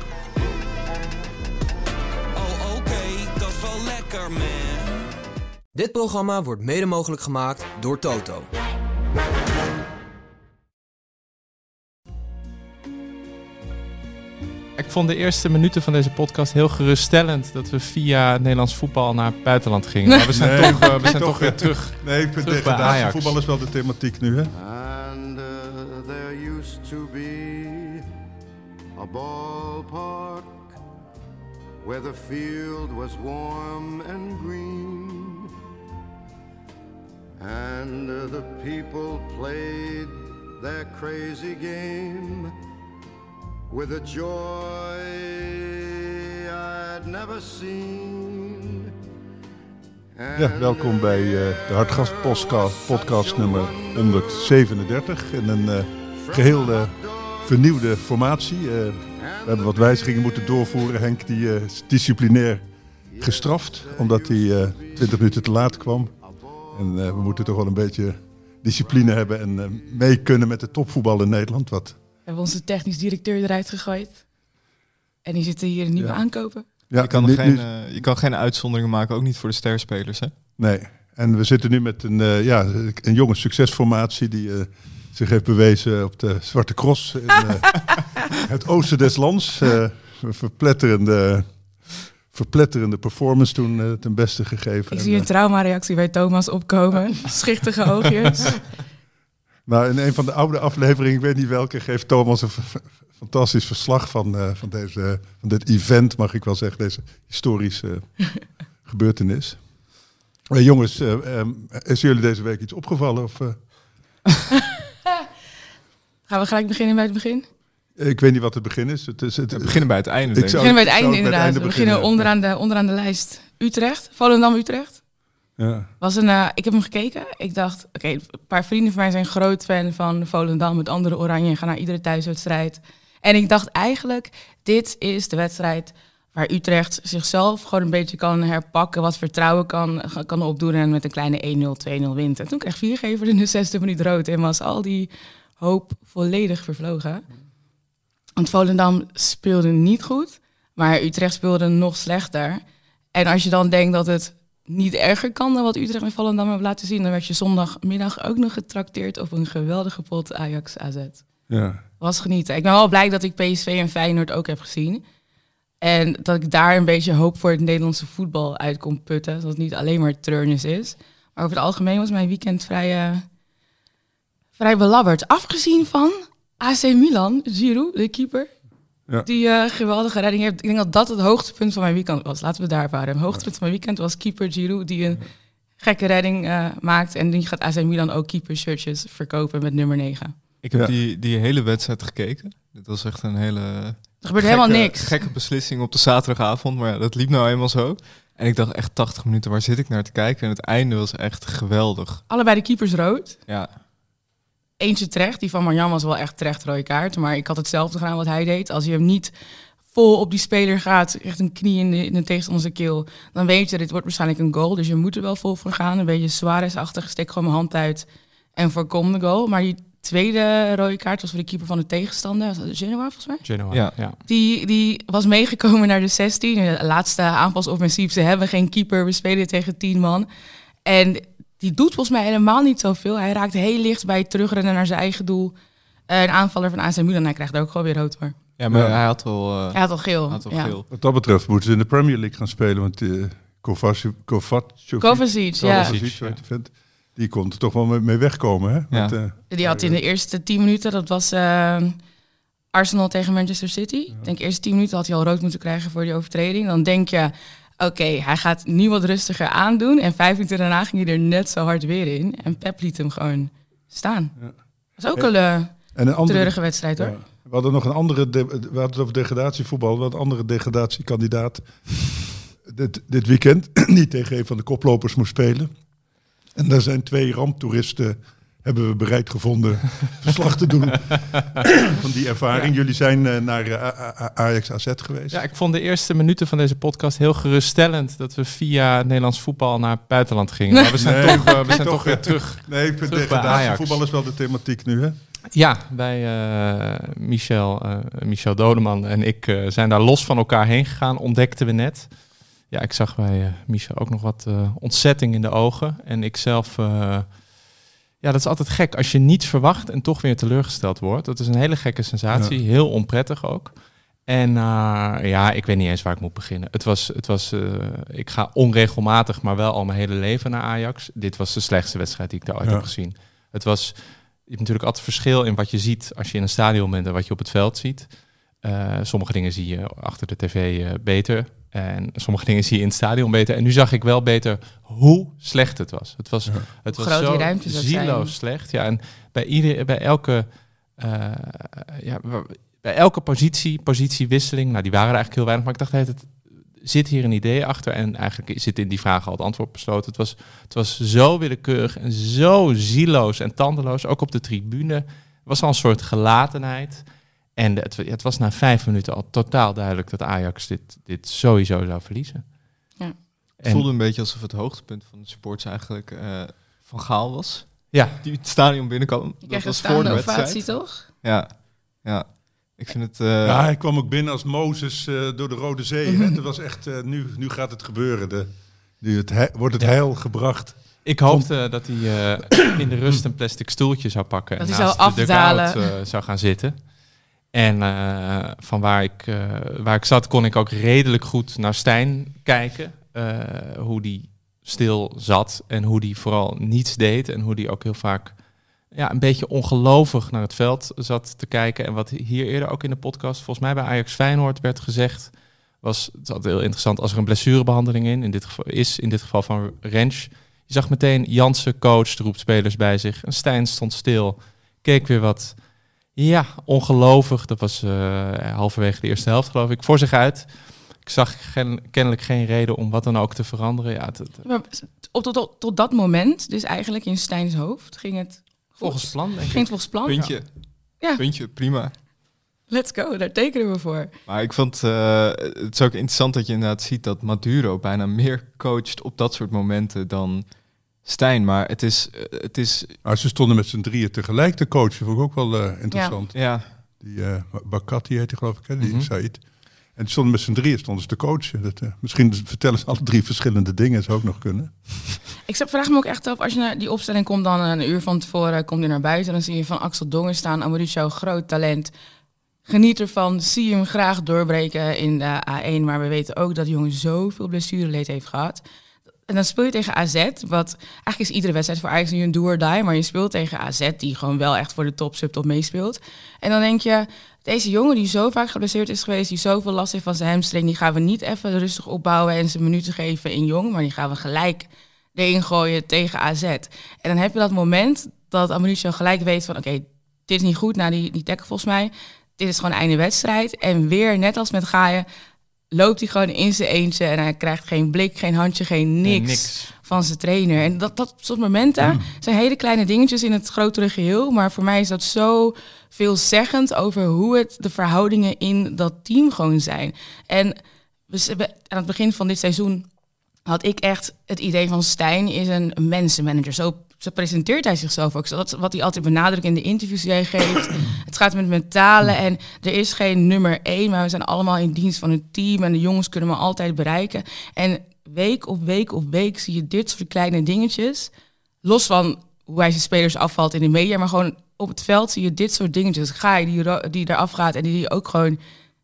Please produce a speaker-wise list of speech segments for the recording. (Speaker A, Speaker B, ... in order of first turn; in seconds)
Speaker A: 2.3-5.0
Speaker B: 5.7-8.5
Speaker C: 14.8-23.4, 223.4-224.2, 245.6-246.4, 285.3-294.0, 295.5-307.4, 308.2-362.5, 367.9-368.2, 381.0-386.9, 387.5-424.4, 428.8-430.4, 448.8-449.1, 499.0-499.7
Speaker D: 20.3-24.5, 50.3-62.6, 63.2-66.1, 66.7-72.0, 76.9-77.7, 80.6-95.3, 99.7-108.2, 108.8-109.6, 110.5-113.6, 118.0-122.3, 125.6-125.9, 161.5-161.8, 238.7-239.0, 240.9-250.0, 265.9-275.7, 276.5-285.4, 291.0-295.1, 312.3-312.6, 322.6-322.9, 373.4-381.5, 443.0-449.4, 449.9-455.2
Speaker E: 24.5-28.0, 28.9-30.8, 31.8-35.5, 37.4-42.5, 43.7-48.9, 50.1-54.6, 56.1-58.0, 59.1-60.8, 63.1-67.4, 68.8-69.2
Speaker F: 72.2-74.2, 75.2-76.6, 94.9-98.6, 116.3-117.5, 120.5-125.0, 126.0-147.2, 148.4-152.6, 153.1-161.2, 162.0-165.0, 165.8-173.2, 174.6-178.5, 179.2-185.2, 185.8-190.3, 194.2-195.2, 202.3-203.4, 204.8-209.3, 209.9-223.4, 224.3-230.3, 230.8-235.5, 236.1-238.3, 239.7-240.7, 245.0-246.0, 249.5-252.0, 252.7-264.3, 265.0-267.1, 290.7-291.7, 336.9-338.3, 369.4-371.0, 376.1-376.4, 384.6-385.8, 424.4-430.4, 432.7-434.1, 445.9-446.1, 455.5-461.9, 462.6-468.6, 469.3-495.1, 495.7-510.6, 511.1-512.9, 513.5-531.1, 531.6-538.4
Speaker G: 77.0-80.3, 119.5-120.7, 190.6-202.2, 203.5-203.7, 238.6-240.8, 363.6-373.6, 430.1-431.9, 434.3-440.5, 441.0-443.0, 446.3-446.7